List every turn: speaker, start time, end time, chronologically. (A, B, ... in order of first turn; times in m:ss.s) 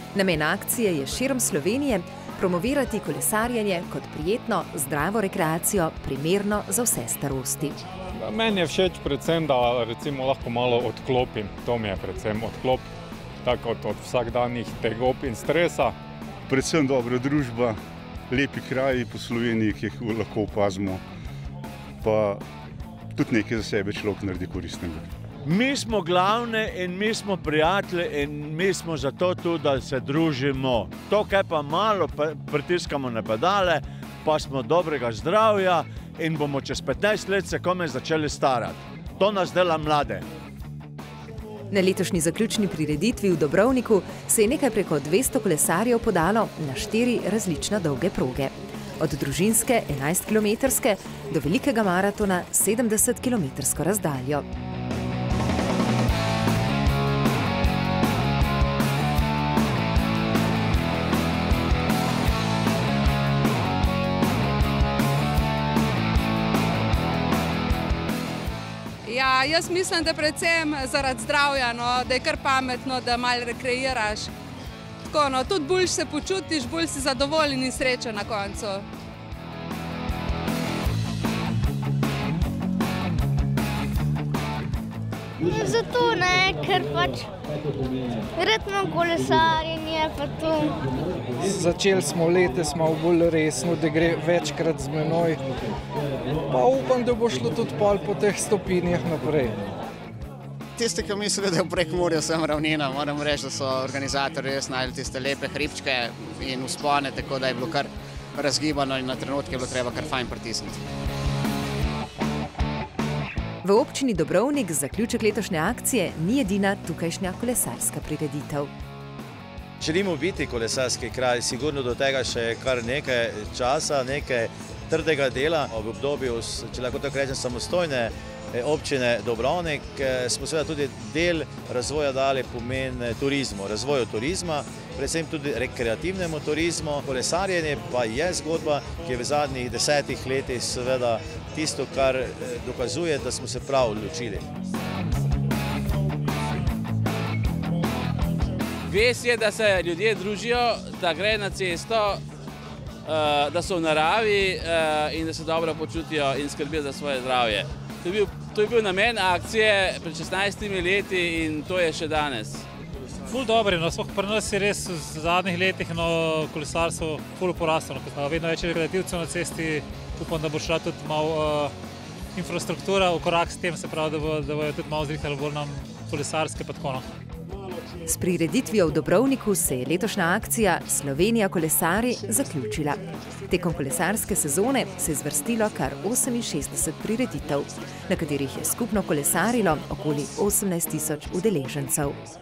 0:00.1-0:07.8 A
0:08.2-0:12.9 B
0:13.4-0:16.0 B
0:16.5-0:17.8 C
0:18.3-0:21.0 C
0:22.0-0:22.4 C
0:23.1-0:25.1 C
0:25.4-0:40.3 D
0:41.7-0:54.5 A
1:09.0-1:14.3 E
1:15.1-1:18.9 E
1:25.5-1:27.3 F
1:28.4-1:30.8 F
1:31.4-1:35.4 G
1:36.5-1:39.6 G
1:40.8-1:50.8 H
1:53.6-1:58.7 A
1:59.8-2:24.5 I
2:28.9-2:32.2 J
2:33.1-2:42.6 J
2:43.3-2:51.7 K
2:52.4-2:57.1 K
2:58.1-3:12.2 A